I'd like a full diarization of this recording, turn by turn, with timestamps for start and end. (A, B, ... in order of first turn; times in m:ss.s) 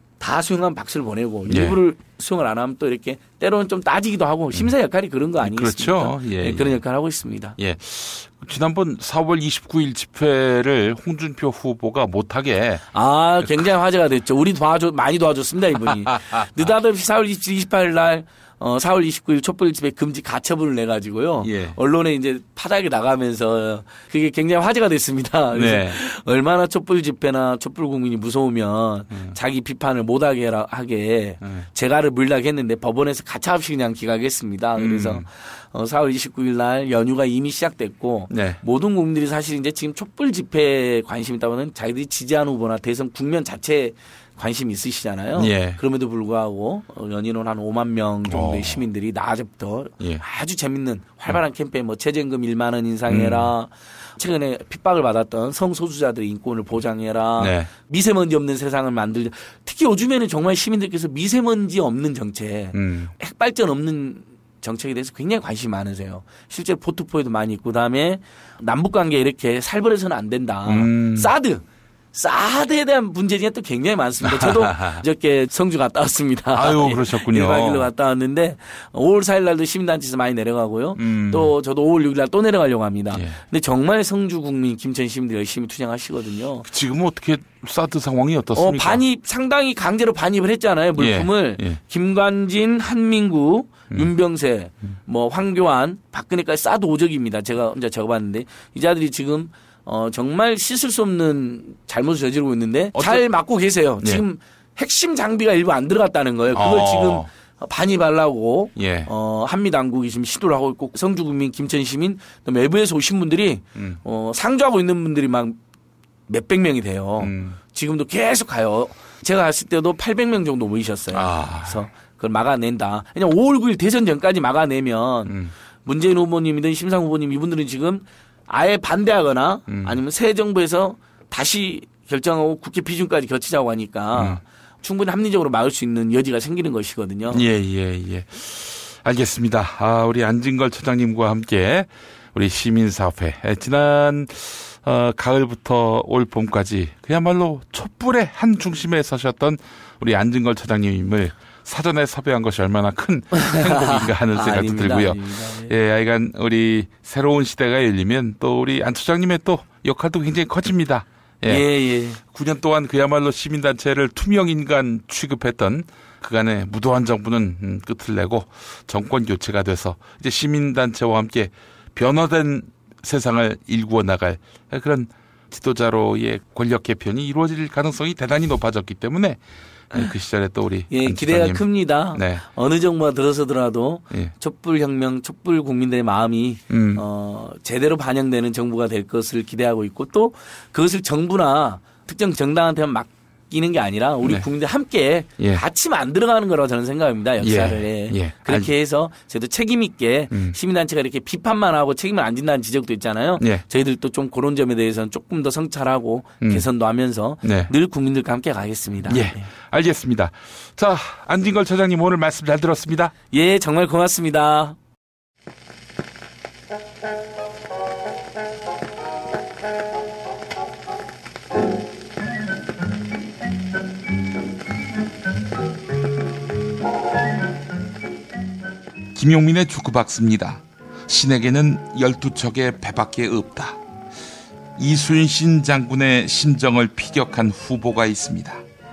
0:00.2-0:07.6 A
0:01.5-0:01.8 B
0:05.4-0:06.8 B
0:07.6-0:12.8 B
0:12.9-1:11.6 A
0:13.4-0:13.7 B
0:15.7-0:16.7 B
0:21.4-0:21.8 B
0:25.5-0:26.0 B
0:29.1-0:29.4 B
0:31.4-0:31.7 B
0:34.8-0:35.3 B
0:38.3-0:38.6 B
0:45.4-0:45.8 B
0:48.2-0:48.8 B
0:53.1-0:53.5 B
0:57.4-0:57.7 B
1:02.7-1:03.1 B
1:10.6-1:11.3 B
1:12.1-1:26.7 A
1:14.2-1:15.0 B
1:16.5-1:17.9 B
1:21.0-1:21.5 B
1:23.1-1:23.4 B
1:26.7-1:29.0 B
1:28.6-1:55.6 A
1:31.0-1:31.8 B
1:42.9-1:43.2 B
1:46.5-1:47.3 B
1:48.8-1:49.1 B
1:53.8-1:54.0 B
1:56.3-2:17.4 A
1:57.2-1:57.6 B
2:01.1-2:01.8 B
2:05.3-2:05.5 B
2:09.7-2:10.0 B
2:14.1-2:14.4 B
2:17.3-2:41.6 B
2:33.4-2:35.7 A
2:41.5-2:42.2 A
2:42.2-3:02.4 B
3:00.9-3:29.4 A
3:06.7-3:07.0 B
3:14.2-3:14.5 B
3:17.4-3:18.7 B
3:20.3-3:20.6 B
3:23.4-3:23.6 B
3:26.4-3:26.7 B
3:27.4-3:27.7 B
3:29.0-3:33.2 B
3:33.3-3:34.8 A
3:49.2-3:53.8 B
3:54.8-3:58.6 B